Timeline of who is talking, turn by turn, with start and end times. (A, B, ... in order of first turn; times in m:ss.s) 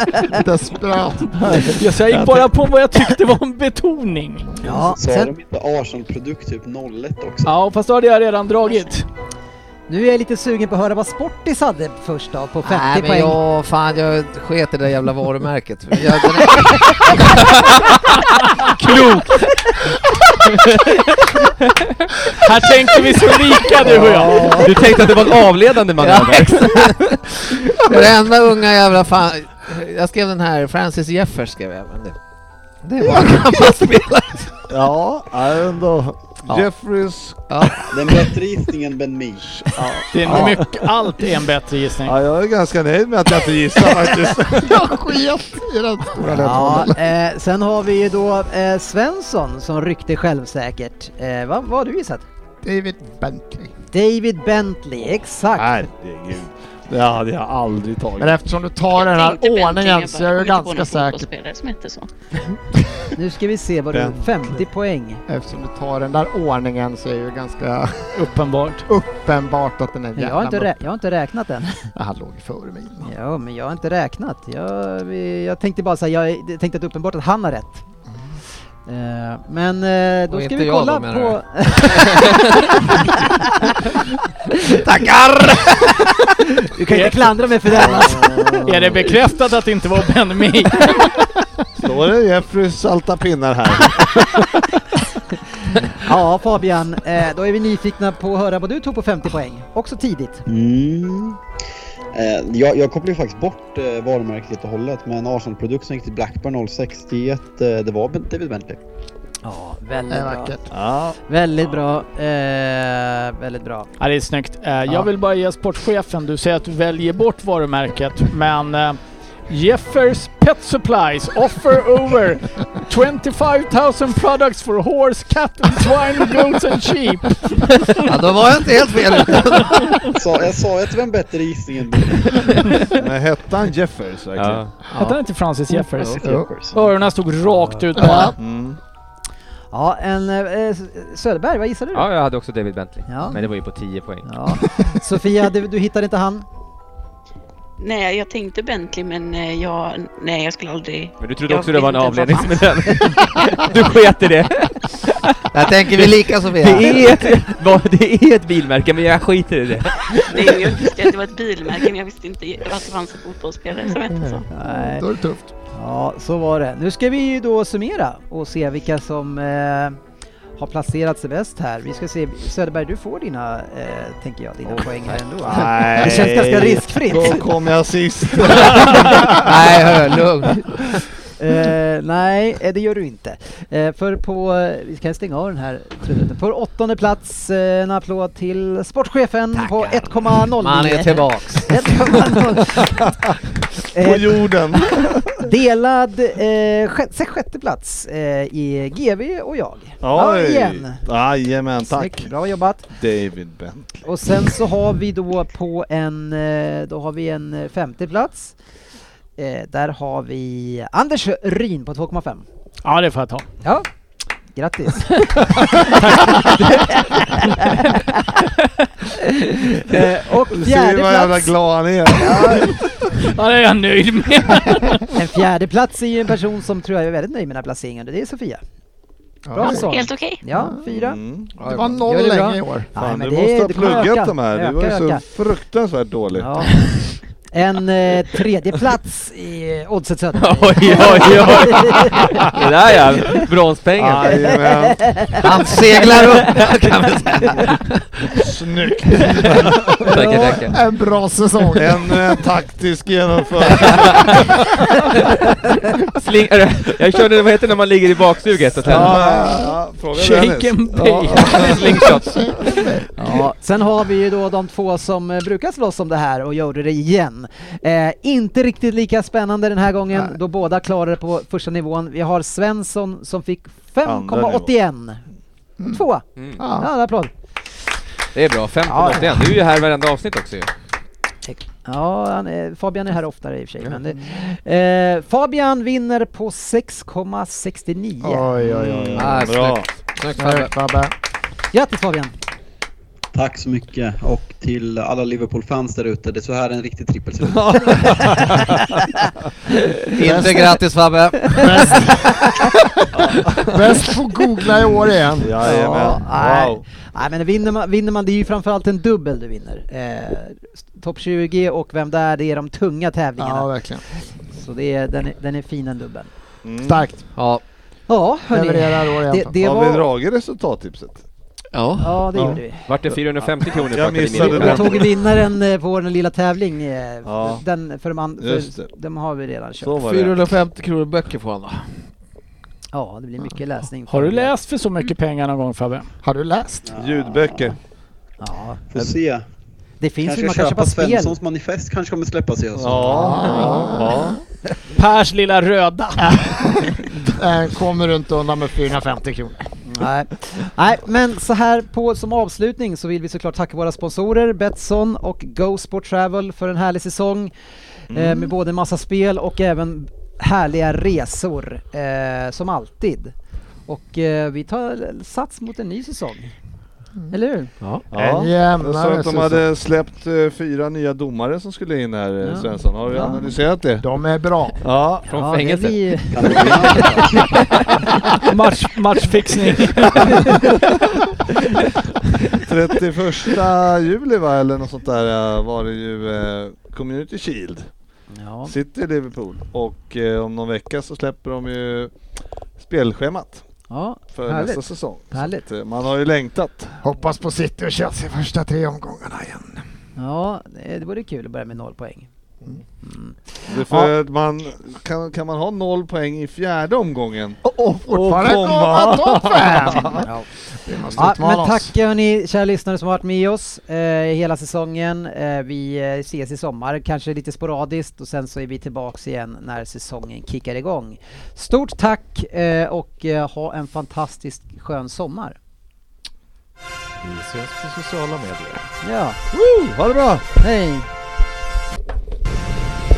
0:00.3-0:01.6 A
0:01.4-0:04.6 B
0:01.4-0:02.5 C
0:04.6-0:05.3 D
0:04.6-0:07.6 E
0:07.5-0:09.1 B
0:08.7-0:09.0 F
0:09.9-0:13.4 D
0:12.6-0:17.3 G
0:18.6-0:19.2 B
0:18.8-0:19.2 H
0:22.4-0:24.7 B
0:23.9-0:24.9 C
0:24.4-0:27.0 H
0:26.0-0:27.1 G
0:27.8-0:32.2 G
0:32.8-0:34.5 G
0:34.7-0:37.5 C
0:37.5-0:38.3 G
0:37.9-0:39.7 E
0:39.6-0:40.9 C
0:40.1-0:42.2 B
0:42.1-0:44.8 C
0:44.6-0:47.0 A
0:46.3-0:52.2 D
0:52.6-0:53.7 A
0:53.9-0:55.7 D
0:55.5-0:58.4 C
0:58.2-1:01.3 A
0:58.9-1:02.1 F
1:03.2-1:05.2 D
1:03.9-1:04.4 C
1:05.3-1:08.3 A
1:08.2-1:08.9 B
1:08.9-1:10.8 A
1:10.2-1:11.9 D
1:12.0-1:13.1 A
1:13.0-1:17.8 D
1:18.9-1:23.7 D
1:20.3-1:22.8 G
1:24.6-1:24.8 D
1:24.7-1:25.9 G
1:25.6-1:28.6 D
1:26.9-1:27.3 B
1:27.7-1:29.1 C
1:28.6-1:31.2 B
1:31.8-1:34.6 C
1:35.9-1:40.4 D
1:40.5-1:41.4 E
1:42.1-1:48.8 E
1:49.4-1:50.6 D
1:50.1-1:50.7 A
1:50.7-1:51.2 C
1:51.3-1:53.9 D
1:54.0-2:08.0 B
2:08.0-2:10.0 G
2:10.1-2:12.7 E
2:12.8-2:14.7 C
2:14.4-2:14.8 H
2:14.9-2:15.2 G
2:14.9-2:18.4 B
2:16.0-2:16.8 E
2:16.2-2:16.5 A
2:18.0-2:18.4 A
2:18.4-2:18.8 C
2:19.7-2:22.1 D
2:21.9-2:24.7 H
2:23.1-2:23.4 D
2:24.2-2:26.5 D
2:27.8-2:33.1 F
2:31.2-2:40.9 H
2:35.5-2:37.3 G
2:40.3-2:44.4 F
2:44.1-2:45.5 A
2:44.5-2:45.1 D
2:45.7-2:50.0 D
2:50.6-2:57.5 D
2:55.3-2:59.8 C
2:58.3-2:59.0 D
2:59.2-3:00.6 G
3:01.4-3:13.1 D
3:09.5-3:12.4 G
3:13.9-3:21.0 D
3:14.0-3:15.5 C
3:20.0-3:22.3 C
3:21.9-3:22.9 D
3:22.9-3:24.1 C
3:24.0-3:28.6 D
3:29.4-3:32.4 D
3:32.8-3:33.5 B
3:34.5-3:38.5 D
3:39.1-3:41.6 D
3:39.9-3:42.7 C
3:42.1-3:42.7 D
3:43.2-3:45.1 B
3:45.1-3:48.6 D
3:49.5-3:49.9 A
3:49.5-3:51.2 D
3:49.6-3:50.4 F
3:50.9-3:51.6 C
3:51.6-3:52.0 G
3:51.7-3:52.9 A
3:51.9-3:55.2 D
3:53.0-3:56.5 C
3:56.4-3:56.9 D
3:57.5-4:02.6 D
4:00.4-4:04.5 H
4:04.0-4:05.2 C
4:04.7-4:05.5 D
4:05.4-4:08.0 G
4:08.3-4:10.1 C
4:10.0-4:10.8 H
4:10.1-4:10.7 D
4:10.4-4:12.3 A
4:11.8-4:14.5 C
4:16.1-4:19.2 H
4:18.8-4:21.9 C
4:18.9-4:19.8 A
4:20.2-4:23.0 B
4:21.8-4:22.3 H
4:22.2-4:23.0 A
4:23.2-4:35.2 D
4:34.0-4:34.7 C
4:35.9-4:37.3 D
4:36.4-4:36.6 H
4:36.6-4:36.9 A
4:38.3-4:40.7 H
4:38.9-4:39.3 D
4:41.5-4:48.5 D
4:48.2-4:49.5 A
4:48.6-4:49.9 C
4:49.1-4:50.7 G
4:50.4-4:51.1 A
4:51.7-4:52.3 D
4:53.3-4:58.6 E
4:57.5-4:59.0 C
5:00.1-5:01.6 G
5:00.2-5:00.7 A
5:01.6-5:02.5 D
5:01.6-5:02.7 A
5:03.2-5:03.8 C
5:03.6-5:05.5 A
5:04.7-5:06.8 C
5:05.6-5:16.3 D
5:13.4-5:14.0 A
5:16.6-5:17.1 C
5:16.8-5:17.2 A
5:17.3-5:17.6 G
5:18.1-5:20.1 D
5:18.5-5:19.5 A
5:19.6-5:21.2 C
5:21.7-5:22.4 G
5:22.0-5:22.8 D
5:22.4-5:23.2 C
5:22.8-5:25.0 H
5:23.7-5:25.2 C
5:24.3-5:30.0 D
5:27.2-5:27.6 C
5:28.4-5:28.9 C
5:29.8-5:30.4 C
5:30.0-5:32.0 G
5:32.9-5:34.5 D
5:34.1-5:36.1 B
5:36.2-5:36.9 A
5:36.9-5:37.5 E
5:37.0-5:37.8 C
5:38.4-5:38.8 D
5:38.9-5:39.4 E
5:40.0-5:41.4 D
5:40.2-5:43.6 E
5:42.8-5:44.4 C
5:43.2-5:44.4 A
5:44.9-5:46.4 B
5:46.2-5:49.7 A
5:49.8-5:57.5 D
5:58.1-5:58.5 C
5:58.1-6:03.3 D
6:03.9-6:06.6 D
6:07.3-6:07.8 D
6:07.8-6:08.1 G
6:08.1-6:14.0 C
6:08.1-6:09.7 A
6:12.4-6:13.4 D
6:14.0-6:14.8 A
6:14.8-6:15.3 C
6:15.3-6:16.7 H
6:15.4-6:17.6 D
6:16.3-6:17.5 E
6:18.5-6:20.6 B
6:20.3-6:20.6 D
6:22.6-6:27.9 C
6:28.3-6:28.7 D
6:28.6-6:32.1 C
6:32.8-6:33.6 C
6:33.9-6:35.6 D
6:34.3-6:37.0 C
6:37.0-6:39.8 A
6:40.2-6:42.3 D
6:43.0-6:44.1 D
6:43.7-6:50.3 C
6:47.6-6:50.3 A
6:50.2-6:50.5 D
6:50.8-6:51.9 A
6:51.0-6:51.2 C
6:51.2-7:05.6 D
7:07.2-7:08.9 G
7:09.0-7:09.4 D
7:09.5-7:10.5 C
7:10.6-7:11.1 D